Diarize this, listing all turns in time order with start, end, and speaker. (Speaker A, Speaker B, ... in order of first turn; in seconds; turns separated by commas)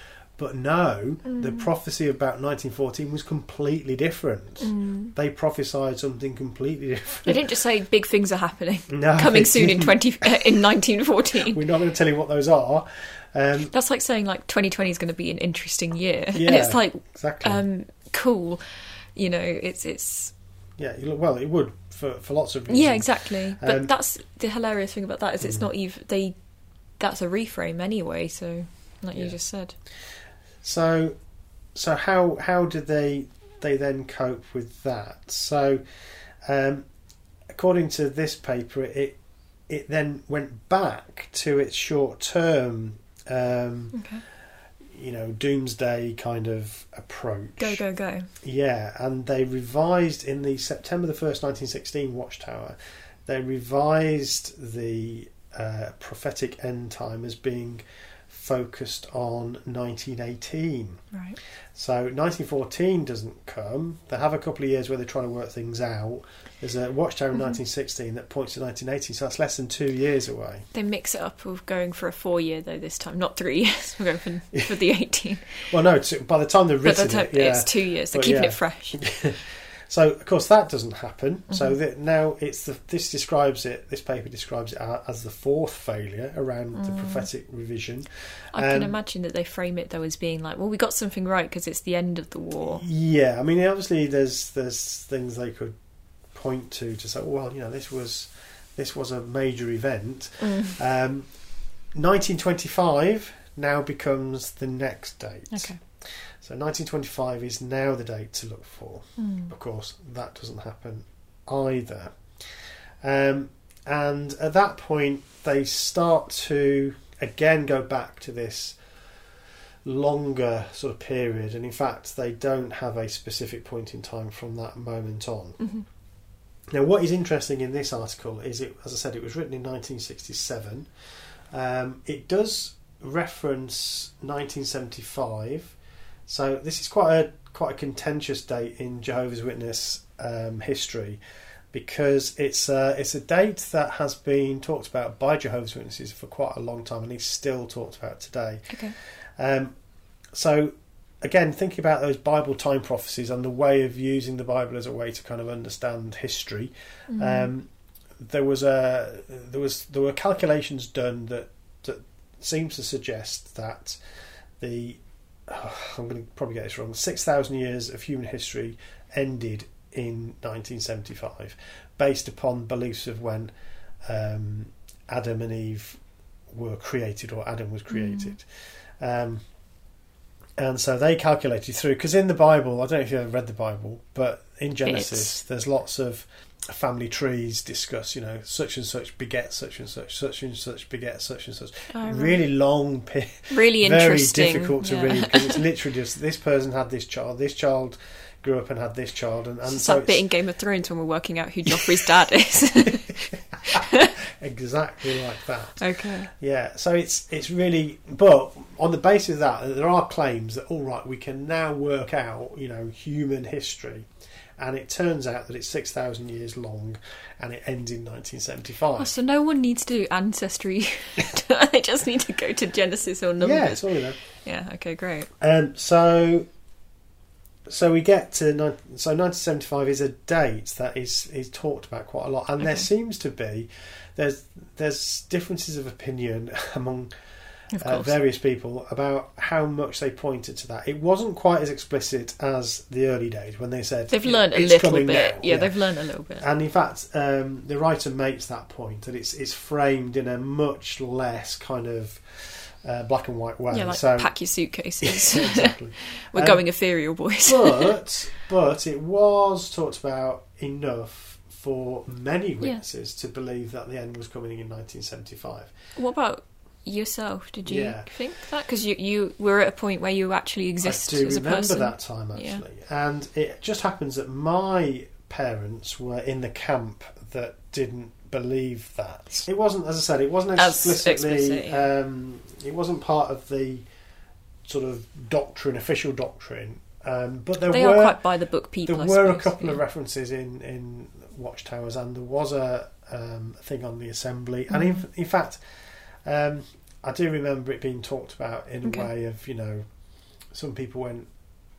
Speaker A: 0.4-7.4, Speaker B: 1.2-1.7, Speaker B: 4.6-5.1, Speaker B: 7.2-11.6, Speaker A: 8.9-10.6, Speaker A: 11.3-13.7, Speaker B: 13.7-18.6, Speaker A: 16.3-17.6, Speaker B: 19.2-20.3, Speaker A: 20.8-23.9, Speaker B: 22.7-26.4, Speaker A: 25.4-25.7, Speaker B: 27.0-29.8, Speaker A: 30.6-31.2, Speaker A: 31.8-35.8, Speaker A: 36.5-36.9, Speaker A: 37.5-39.2, Speaker A: 39.7-44.0, Speaker B: 43.9-44.2, Speaker A: 44.9-47.8, Speaker B: 47.6-48.3, Speaker A: 48.4-61.0, Speaker B: 61.1-61.4, Speaker A: 61.8-70.7, Speaker B: 70.7-75.7, Speaker A: 75.7-89.0, Speaker B: 76.8-79.0, Speaker B: 86.8-87.3, Speaker B: 88.5-92.8, Speaker A: 92.7-95.8, Speaker A: 96.3-101.3, Speaker B: 100.4-100.8, Speaker A: 101.9-112.5, Speaker B: 105.5-105.8, Speaker B: 109.2-109.5, Speaker A: 113.0-118.8, Speaker A: 119.8-125.6, Speaker A: 126.7-130.9, Speaker A: 131.5-135.8, Speaker A: 136.3-141.2, Speaker A: 141.7-149.8, Speaker B: 148.7-149.0, Speaker A: 150.3-164.0, Speaker B: 157.1-157.5, Speaker A: 164.6-173.5, Speaker A: 174.1-178.5, Speaker B: 177.9-178.4, Speaker A: 179.0-179.4, Speaker A: 180.6-200.2, Speaker B: 184.8-185.4, Speaker B: 191.9-192.4, Speaker B: 193.5-195.6, Speaker B: 199.7-204.2, Speaker A: 201.7-202.1, Speaker A: 203.1-214.1, Speaker B: 205.8-206.3, Speaker A: 214.6-219.1, Speaker B: 219.0-225.3, Speaker A: 223.4-224.2, Speaker A: 225.4-226.5, Speaker A: 227.7-237.1, Speaker B: 237.7-238.1, Speaker A: 237.8-254.3, Speaker B: 244.1-246.5, Speaker B: 253.7-257.9, Speaker A: 255.0-256.6, Speaker A: 257.4-265.7, Speaker B: 266.0-272.6, Speaker A: 267.7-268.1, Speaker A: 270.8-283.9, Speaker B: 280.6-281.9, Speaker A: 284.6-288.2, Speaker B: 287.7-289.8, Speaker A: 288.9-299.9, Speaker B: 294.7-295.0, Speaker A: 300.5-301.3